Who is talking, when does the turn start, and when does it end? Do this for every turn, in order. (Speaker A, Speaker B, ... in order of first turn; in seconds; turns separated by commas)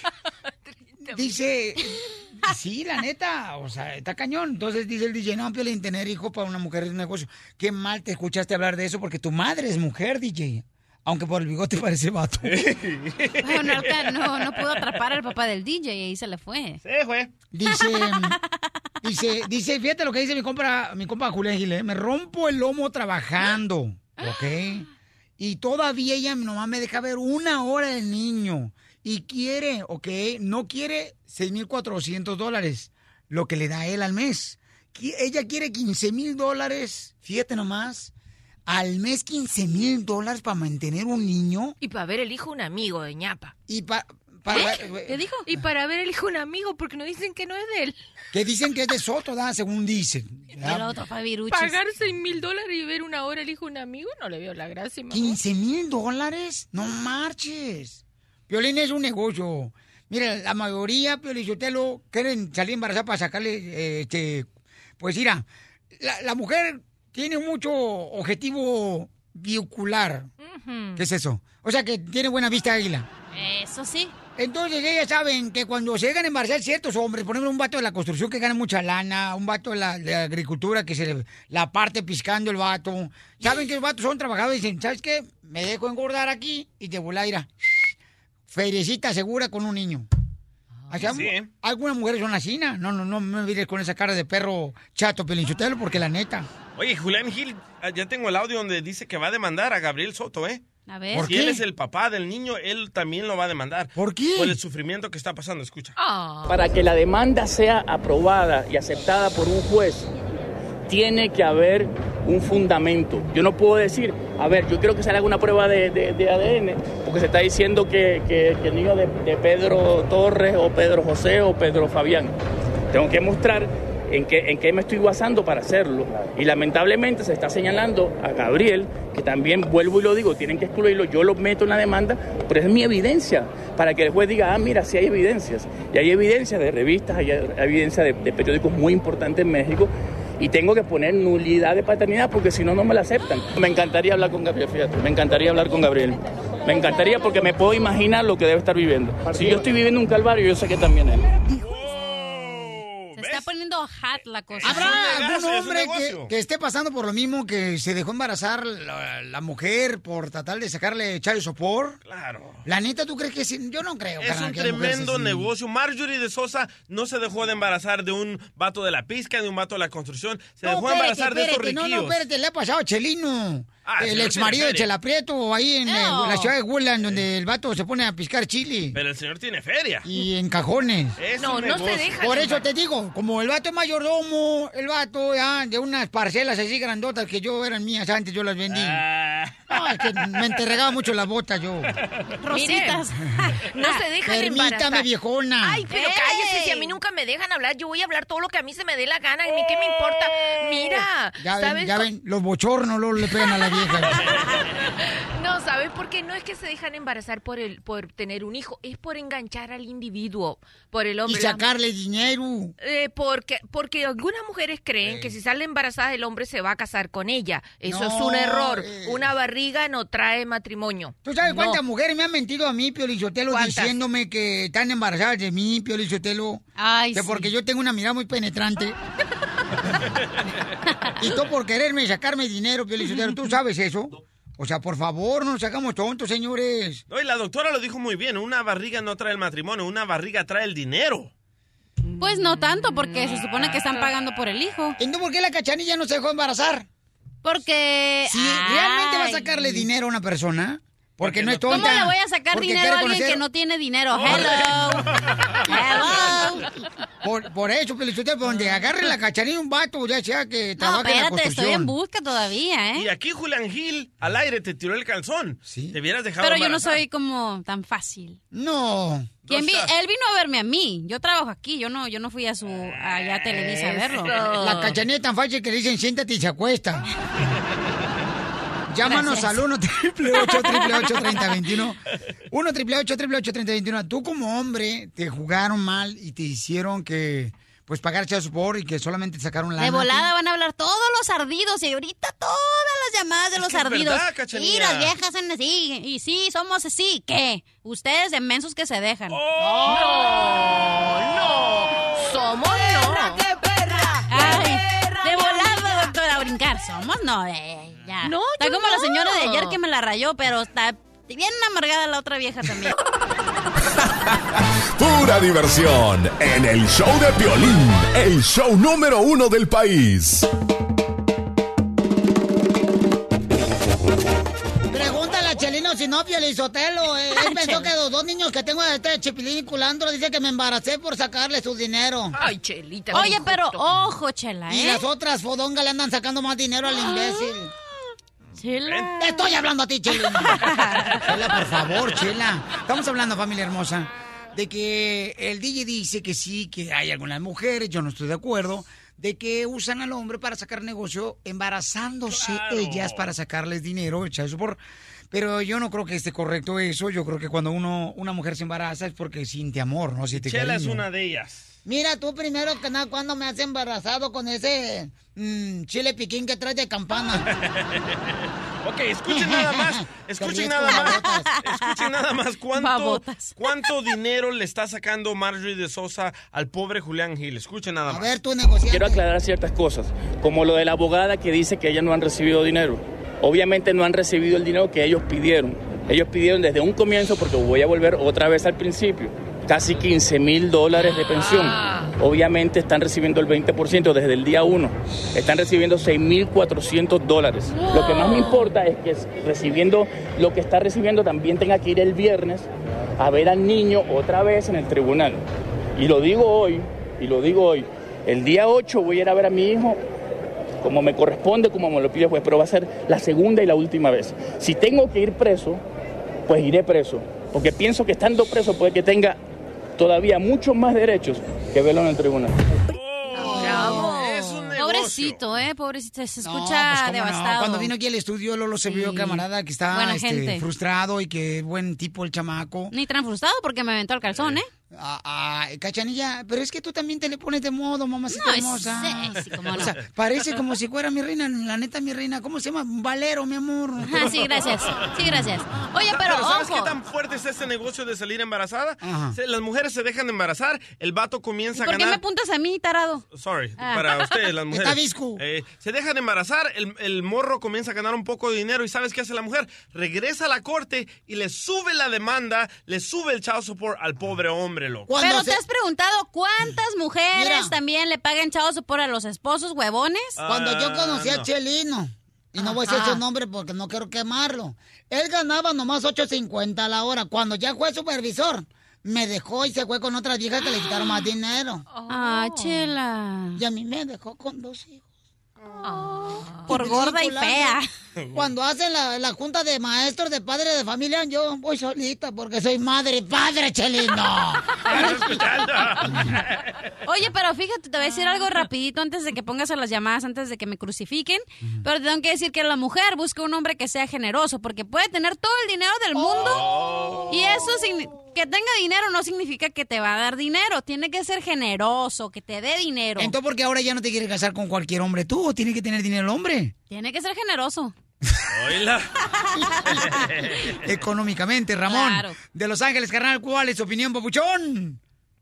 Speaker A: 0.6-1.4, Speaker B: 1.1-12.6, Speaker C: 12.4-13.9, Speaker D: 13.4-16.8, Speaker C: 16.8-17.3, Speaker B: 17.5-18.4, Speaker D: 17.7-18.4, Speaker B: 19.0-24.9, Speaker B: 25.4-38.1, Speaker B: 38.7-41.8, Speaker A: 41.8-43.5, Speaker B: 43.7-45.2, Speaker D: 44.5-45.4, Speaker A: 45.4-48.0, Speaker B: 48.3-50.9, Speaker D: 50.6-51.8, Speaker A: 51.5-55.4, Speaker B: 55.1-64.5, Speaker B: 65.0-70.3, Speaker A: 70.4-71.0, Speaker B: 70.9-73.1, Speaker D: 73.3-74.1, Speaker B: 74.3-87.9, Speaker B: 88.5-90.1, Speaker B: 90.9-96.5, Speaker C: 91.0-91.5, Speaker C: 96.8-100.6, Speaker D: 100.9-101.3, Speaker B: 101.1-101.6, Speaker C: 101.2-105.9, Speaker B: 104.0-104.6, Speaker A: 106.0-106.6, Speaker E: 106.5-110.1, Speaker E: 110.9-122.3, Speaker E: 122.9-151.2, Speaker C: 151.5-153.4, Speaker D: 153.1-155.1, Speaker C: 154.5-156.3, Speaker B: 154.6-162.0, Speaker C: 162.1-162.6, Speaker B: 162.6-165.5, Speaker C: 164.2-172.2, Speaker B: 170.6-179.0, Speaker C: 173.8-174.9, Speaker D: 175.8-176.5, Speaker C: 178.9-180.1, Speaker B: 180.0-181.2, Speaker C: 181.2-182.4, Speaker A: 181.4-182.6, Speaker B: 182.2-189.0, Speaker C: 188.7-189.7, Speaker B: 189.7-191.9, Speaker D: 192.4-194.0, Speaker A: 192.5-193.0, Speaker A: 193.7-195.1, Speaker B: 194.2-195.8, Speaker A: 195.6-202.1, Speaker D: 195.9-196.9, Speaker B: 201.4-204.2, Speaker A: 205.3-211.7, Speaker B: 211.2-212.7, Speaker A: 212.8-221.8, Speaker B: 215.0-215.3, Speaker B: 217.8-219.3, Speaker B: 221.2-229.0, Speaker A: 223.5-223.9, Speaker D: 226.8-227.5, Speaker B: 231.2-237.0, Speaker C: 237.1-241.3, Speaker A: 242.1-244.0, Speaker D: 242.2-244.9, Speaker B: 245.0-246.9, Speaker D: 247.4-249.8, Speaker B: 248.3-253.4, Speaker C: 251.2-252.0, Speaker D: 251.7-255.1, Speaker C: 254.1-256.0, Speaker D: 255.7-256.7, Speaker B: 257.2-261.9, Speaker D: 260.8-263.1, Speaker C: 262.9-266.9, Speaker B: 265.6-266.0, Speaker D: 266.4-268.4, Speaker B: 268.5-269.4, Speaker C: 269.4-269.9, Speaker D: 269.5-274.3, Speaker C: 272.7-274.2, Speaker A: 274.3-274.9, Speaker B: 274.5-277.1, Speaker B: 278.9-282.0, Speaker D: 279.1-279.6, Speaker D: 280.4-281.4, Speaker B: 282.5-290.3, Speaker D: 289.8-299.4, Speaker C: 293.6-295.1, Speaker C: 299.3-300.1, Speaker B: 299.6-300.1, Speaker A: 299.9-303.4, Speaker C: 301.6-302.2, Speaker D: 304.3-312.9, Speaker A: 308.2-309.8, Speaker F: 314.6-320.5, Speaker B: 324.9-332.4, Speaker D: 327.4-327.9, Speaker A: 332.4-333.9, Speaker D: 333.1-335.0, Speaker B: 334.7-337.7, Speaker D: 338.6-339.5, Speaker C: 338.8-339.1, Speaker B: 339.2-354.8, Speaker D: 340.2-341.2, Speaker C: 352.3-353.3, Speaker B: 355.3-361.0, Speaker C: 360.3-361.7, Speaker B: 361.8-367.4, Speaker C: 367.5-378.3, Speaker B: 369.3-371.5, Speaker D: 370.9-372.0, Speaker D: 372.7-373.9, Speaker B: 378.1-379.2, Speaker E: 378.9-402.7, Speaker A: 391.5-392.1, Speaker A: 397.7-398.7, Speaker E: 403.2-405.4, Speaker E: 405.9-410.0, Speaker E: 410.8-415.8, Speaker E: 416.5-419.4, Speaker E: 420.0-422.5, Speaker C: 422.9-425.4, Speaker B: 423.3-424.1, Speaker D: 423.4-427.9, Speaker A: 423.6-424.1, Speaker B: 426.4-432.9, Speaker D: 428.9-430.6, Speaker D: 432.9-434.7, Speaker B: 434.9-444.6, Speaker D: 438.3-439.9, Speaker D: 444.1-446.9, Speaker B: 445.2-445.5, Speaker C: 446.0-452.2, Speaker B: 449.0-449.4, Speaker D: 451.8-453.2, Speaker C: 453.3-465.1, Speaker D: 453.8-454.3, Speaker B: 454.7-455.4, Speaker B: 465.1-465.6, Speaker D: 465.2-470.4, Speaker B: 467.3-467.8, Speaker C: 470.4-471.5, Speaker B: 470.4-481.8, Speaker A: 472.6-473.2, Speaker A: 481.9-482.9, Speaker D: 482.1-483.6, Speaker B: 483.6-485.0, Speaker A: 485.8-486.7, Speaker B: 486.7-487.8, Speaker D: 486.7-487.9, Speaker B: 488.3-495.1, Speaker C: 494.9-496.4, Speaker D: 497.1-506.7, Speaker B: 506.2-506.4, Speaker C: 506.4-507.3, Speaker D: 507.3-513.3, Speaker B: 513.2-516.7, Speaker D: 516.9-517.9, Speaker C: 518.5-519.1, Speaker D: 519.4-520.2, Speaker B: 519.6-520.2, Speaker C: 520.0-520.7, Speaker B: 520.8-525.0, Speaker D: 521.9-522.4